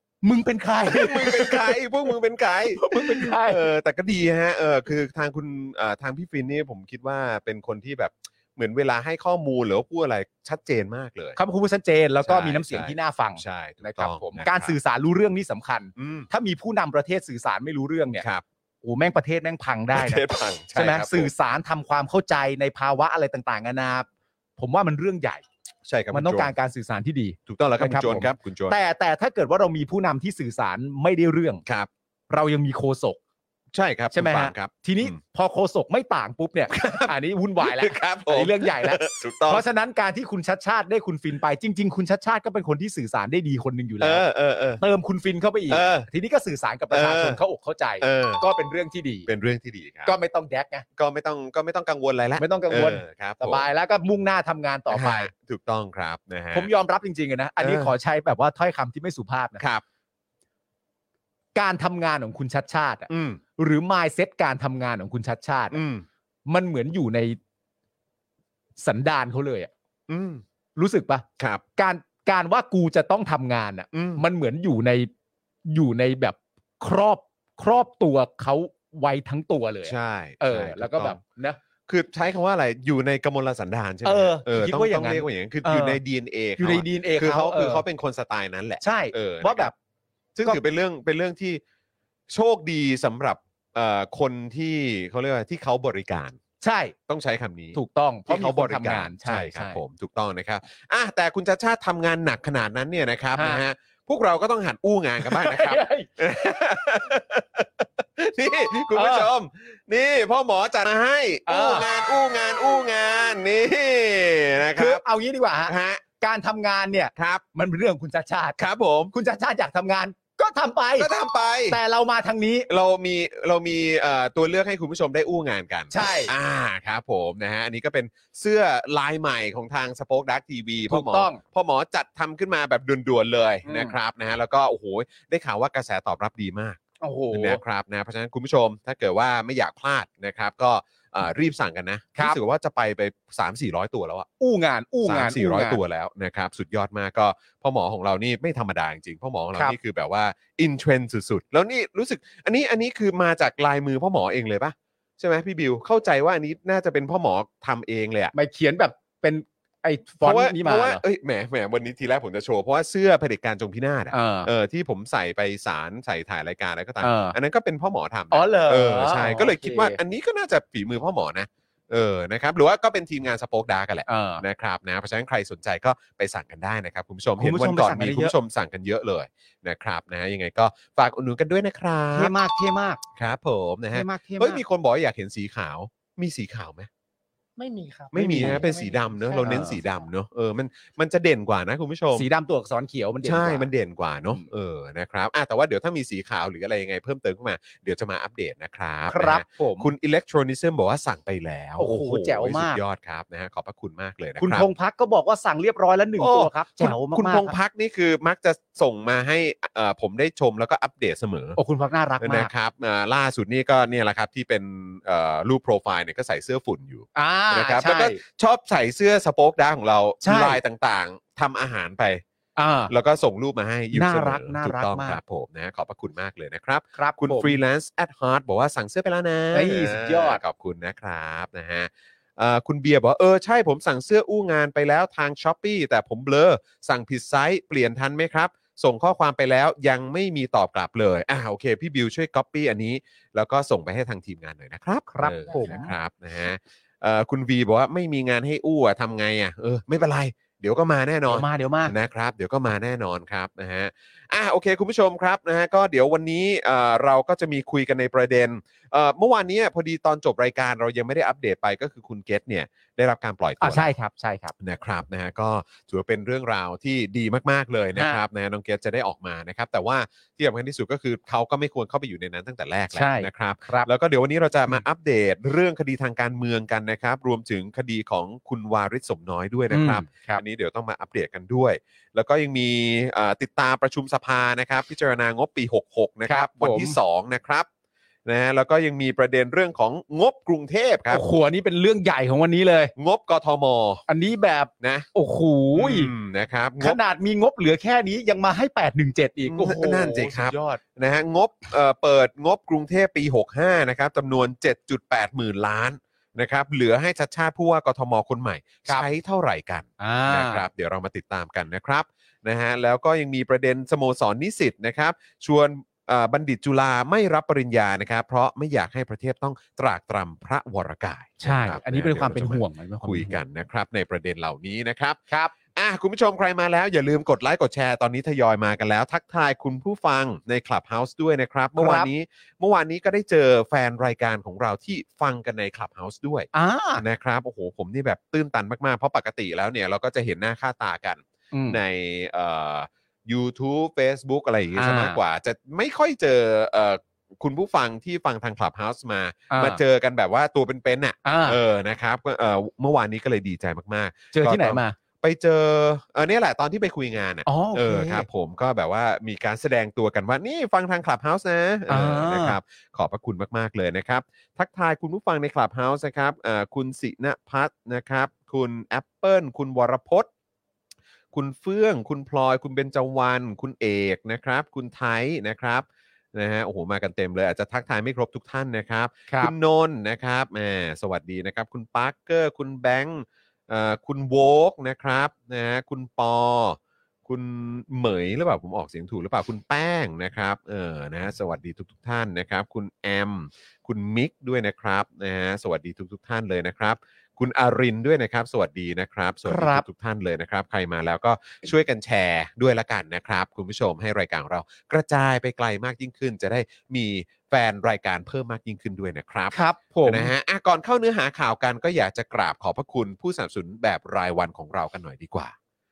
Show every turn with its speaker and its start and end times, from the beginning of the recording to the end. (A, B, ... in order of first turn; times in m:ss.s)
0:00.2-0:01.8 A
0:00.8-0:11.4 B
0:02.8-0:03.6 A
0:11.4-0:18.2 A
0:12.2-0:14.8 B
0:16.0-0:16.3 B
0:18.2-0:18.4 B
0:18.8-0:20.2 A
0:19.9-0:21.3 B
0:20.7-0:24.1 A
0:24.6-0:25.4 A
0:25.8-0:26.5 B
0:26.1-0:31.6 A
0:27.5-0:28.8 B
0:32.3-0:33.2 A
0:33.7-0:35.2 B
0:34.1-0:44.2 A
0:36.7-0:39.6 B
0:44.0-0:44.8 B
0:44.8-0:49.3 A
0:45.7-0:46.1 B
0:46.9-0:47.4 B
0:48.0-0:48.4 B
0:49.2-0:50.1 B
0:50.0-0:50.8 A
0:51.0-0:53.7 B
0:52.4-0:55.3 A
0:54.9-0:56.7 B
0:56.5-0:59.6 A
0:57.6-0:57.9 B
1:01.5-1:05.8 A
1:03.1-1:03.4 B
1:05.7-1:06.0 B
1:06.5-1:07.4 A
1:08.8-1:09.7 A
1:10.1-1:10.4 B
1:10.8-1:11.2 A
1:11.8-1:15.1 A
1:13.9-1:14.2 B
1:15.7-1:21.6 A
1:19.8-1:21.2 B
1:21.9-1:29.7 B
1:24.0-1:26.0 A
1:26.6-1:27.8 A
1:28.8-1:29.7 A
1:30.4-1:31.6 B
1:32.3-1:36.4 B
1:36.6-1:36.9 A
1:37.1-1:55.0 B
1:37.7-1:39.8 A
1:43.3-1:43.6 A
1:45.2-1:46.1 A
1:48.9-1:49.3 A
1:51.5-1:51.9 A
1:54.8-1:58.6 A
1:55.7-1:56.0 B
1:57.2-1:57.4 B
1:58.6-1:59.1 B
1:59.1-2:01.1 A
2:01.0-2:01.8 B
2:01.7-2:02.7 A
2:02.7-2:16.8 B
2:05.9-2:06.3 A
2:10.9-2:11.4 A
2:13.6-2:14.0 A
2:17.0-2:17.6 A
2:17.3-2:24.3 B
2:24.4-2:25.8 A
2:25.0-2:38.3 B
2:38.3-2:41.0 A
2:40.2-3:02.3 B
2:44.1-2:44.5 A
2:47.0-2:47.4 A
2:48.3-2:50.0 A
2:54.1-2:54.4 A
2:57.4-2:58.3 A
3:02.1-3:03.0 A
3:03.1-3:06.9 B
3:03.9-3:04.6 A
3:07.6-3:10.1 C
3:08.1-3:12.3 B
3:08.2-3:08.6 A
3:09.4-3:09.8 A
3:12.1-3:13.7 A
3:13.2-3:24.7 B
3:19.1-3:19.9 A
3:21.8-3:22.8 A
3:24.4-3:27.6 A
3:26.2-3:31.6 B
3:31.6-3:32.5 A
3:32.2-3:42.2 B
3:37.1-3:38.2 A
3:40.2-3:40.6 A
3:42.6-3:42.9 A
3:42.9-4:23.9 B
3:43.9-3:45.2 A
3:47.0-3:47.6 A
3:49.5-3:50.4 A
4:05.1-4:05.9 A
4:05.5-4:05.9 C
4:11.3-4:11.9 A
4:23.6-4:24.5 A
4:24.6-4:47.7 B
4:32.9-4:33.9 A
4:39.7-4:40.4 A
4:46.2-4:47.0 A
4:48.2-4:51.2 B
4:51.1-4:52.9 A
4:53.0-4:54.0 B
4:54.1-4:56.1 A
4:54.8-4:55.1 B
4:55.7-4:57.0 B
4:56.8-5:00.8 A
4:59.4-5:25.2 B
5:10.0-5:10.6 A
5:21.4-5:23.4 A
5:25.7-6:10.3 B
5:31.8-5:32.1 A
5:36.5-5:37.0 A
5:41.5-5:41.8 A
5:44.8-5:45.2 A
5:49.5-5:49.8 A
5:51.2-5:51.6 A
5:54.3-5:55.0 A
5:57.4-5:58.3 A
6:01.9-6:02.6 A
6:11.3-6:55.5 B
6:39.4-6:39.8 A
6:49.5-6:50.3 A